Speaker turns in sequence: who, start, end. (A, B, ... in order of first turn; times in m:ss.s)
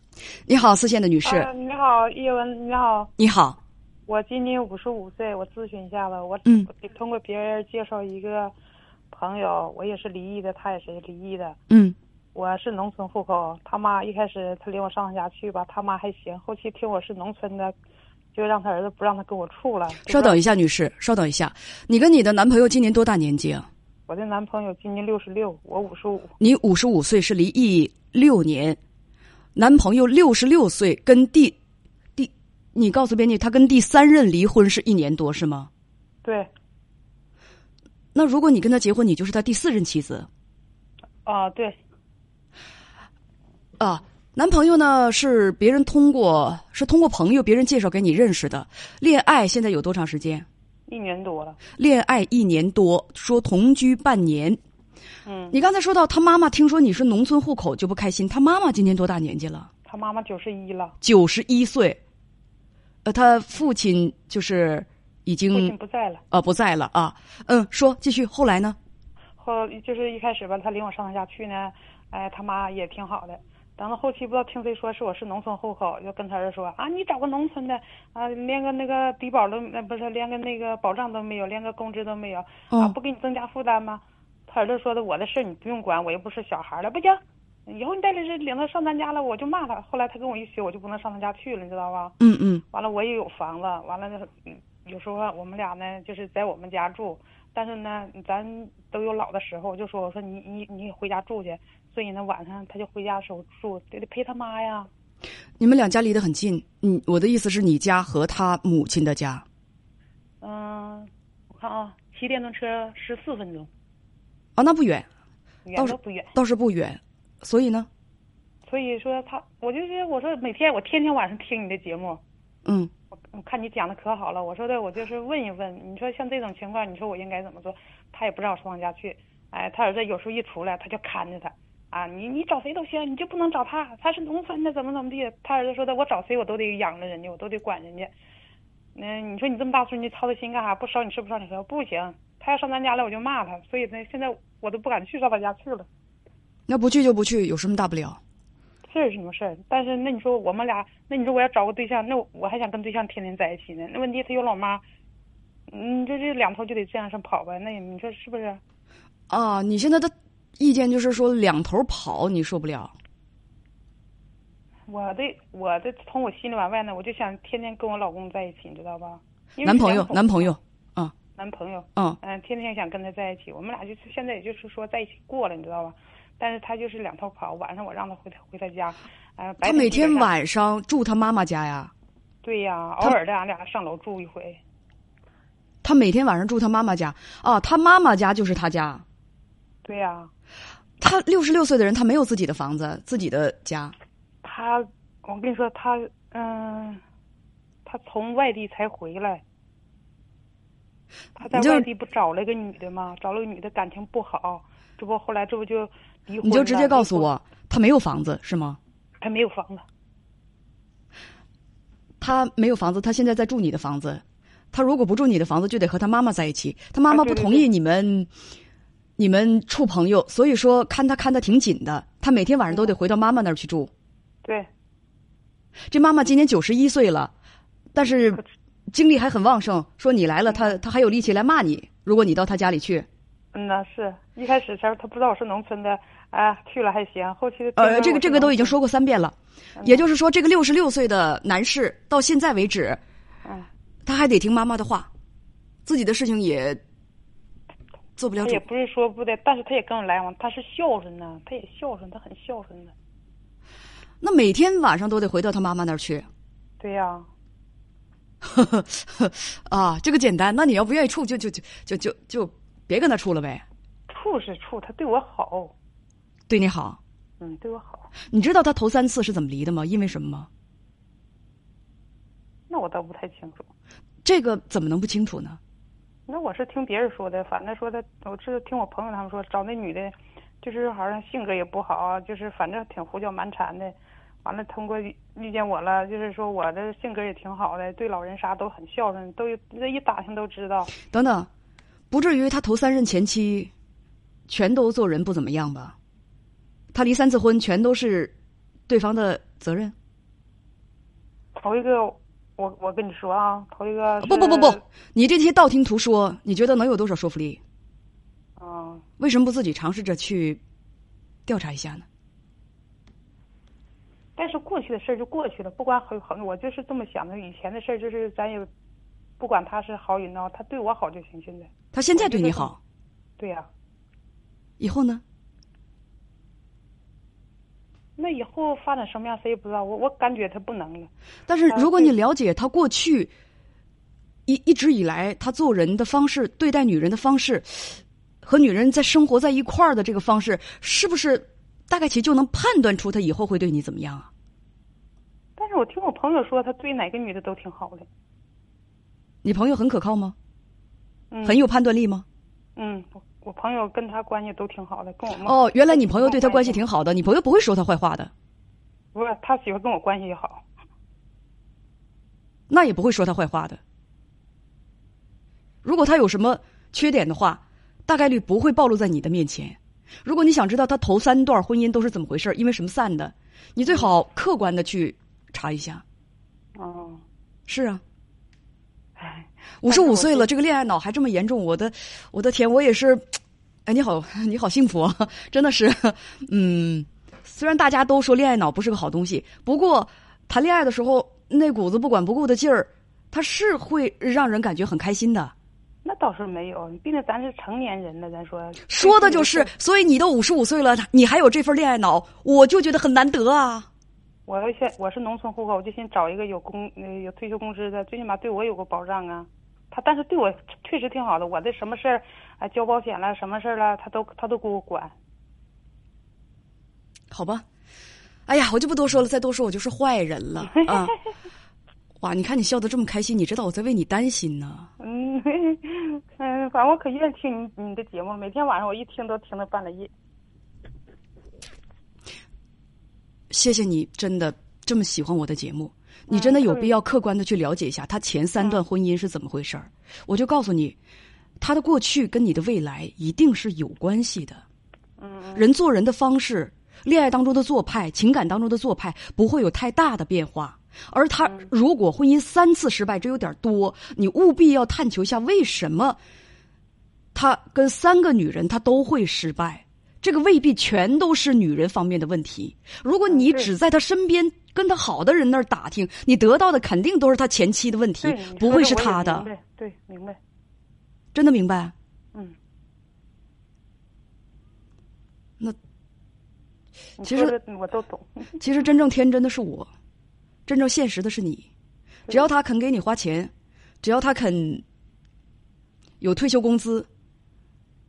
0:00.5-0:01.5 A
0:01.2-0:03.1 B
0:03.2-0:03.6 A
0:04.1-0:08.5 B
0:09.1-0:11.6 B
0:11.7-0:12.0 A
0:12.3-0:17.8 B
0:18.3-0:20.4 B
0:20.0-0:23.7 A
0:24.1-0:26.3 B
0:26.4-0:28.8 A
0:29.6-0:31.6 A
0:32.2-0:35.7 A
0:36.2-0:36.5 B
0:38.2-0:40.3 A
0:41.3-0:41.8 B
0:43.8-0:50.4 A
0:50.9-0:51.6 B
0:51.8-0:54.6 A
0:55.3-0:55.6 B
0:55.5-0:59.7 A
0:59.8-1:01.0 B
1:01.0-1:02.0 A
1:03.0-1:05.7 A
1:05.5-1:06.2 B
1:06.3-1:08.8 A
1:09.4-1:32.1 B
1:32.2-1:32.6 A
1:32.7-1:44.9 B
1:45.6-1:49.4 A
1:50.4-1:53.7 B
1:54.6-1:55.1 A
1:55.6-1:56.3 B
1:55.7-1:57.9 A
1:58.6-2:02.2 B
2:02.6-2:02.9 A
2:03.3-2:18.1 B
2:18.9-2:25.9 B
2:26.7-2:28.2 A
2:28.9-2:34.8 B
2:35.7-2:38.6 B
2:39.3-2:42.9 A
2:44.9-2:50.6 B
2:49.6-2:51.1 A
2:51.4-3:00.3 B
2:59.6-3:01.9 A
3:02.4-3:04.6 B
3:05.8-3:09.0 A
3:09.8-3:10.3 B
3:11.0-3:13.9 A
3:14.4-3:17.0 B
3:17.8-3:19.4 B
3:21.3-3:27.3 B
3:21.4-3:21.8 A
3:26.4-3:28.8 A
3:29.2-3:29.8 B
3:32.2-3:38.3 A
3:37.1-3:37.7 B
3:39.2-3:43.9 A
3:44.4-3:44.7 B
3:45.9-3:47.3 A
3:47.9-3:53.1 A
3:50.5-3:50.8 B
3:53.5-3:58.8 B
3:57.8-4:03.0 A
3:59.8-4:00.0 B
4:04.1-4:05.1 A
4:05.8-4:06.8 A
4:08.2-4:08.6 A
4:08.4-4:12.9 B
4:14.2-4:16.3 A
4:16.8-4:17.3 B
4:18.4-4:23.6 A
4:24.1-4:25.7 B
4:26.5-4:27.0 A
4:27.4-4:28.1 B
4:28.3-4:30.5 A
4:32.7-4:33.7 B
4:34.2-4:35.6 A
4:36.3-4:50.9 B
4:51.1-4:51.5 A
4:52.1-4:53.7 A
4:54.5-4:55.9 A
4:56.9-4:58.3 A
4:58.9-4:59.9 A
5:01.6-5:04.8 B
5:04.2-5:07.6 A
5:08.6-5:09.0 B
5:09.2-5:10.6 A
5:11.5-5:12.1 A
5:14.4-5:18.7 B
5:19.4-5:22.8 B
5:21.9-5:22.8 A
5:23.4-5:23.7 B
5:24.8-5:25.2 A
5:28.2-5:31.1 B
5:31.5-5:33.3 A
5:31.7-5:32.2 B
5:34.5-5:44.3 A
5:45.6-5:48.1 B
5:49.4-5:50.3 A
5:51.3-5:51.6 B
5:51.4-5:52.2 A
5:52.8-5:56.8 B
5:55.4-5:58.3 A
5:59.1-6:00.6 B
6:02.7-6:03.8 A
6:05.8-6:16.0 A
6:16.8-6:17.2 B
6:17.7-6:18.0 A
6:19.2-6:20.5 B
6:19.8-6:35.5 A
6:36.0-6:39.7 B
6:38.9-6:43.9 A
6:44.5-6:55.1 B
6:57.3-6:57.6 A
6:58.5-7:01.2 A
7:00.7-7:01.1 B
7:02.2-7:04.9 A
7:05.0-7:10.1 B
7:13.5-7:21.0 A
7:16.3-7:16.9 B
7:21.6-7:24.6 A
7:25.2-7:25.7 B
7:25.6-7:36.2 A
7:37.3-7:49.5 A
7:43.3-7:43.7 B
7:48.2-7:50.4 B
7:51.3-7:51.9 A
7:57.2-7:58.6 B
7:57.2-7:57.6 A
7:58.6-7:59.9 A
8:00.6-8:01.7 A
8:02.3-8:03.5 A
8:04.0-8:04.8 A
8:06.2-8:07.1 A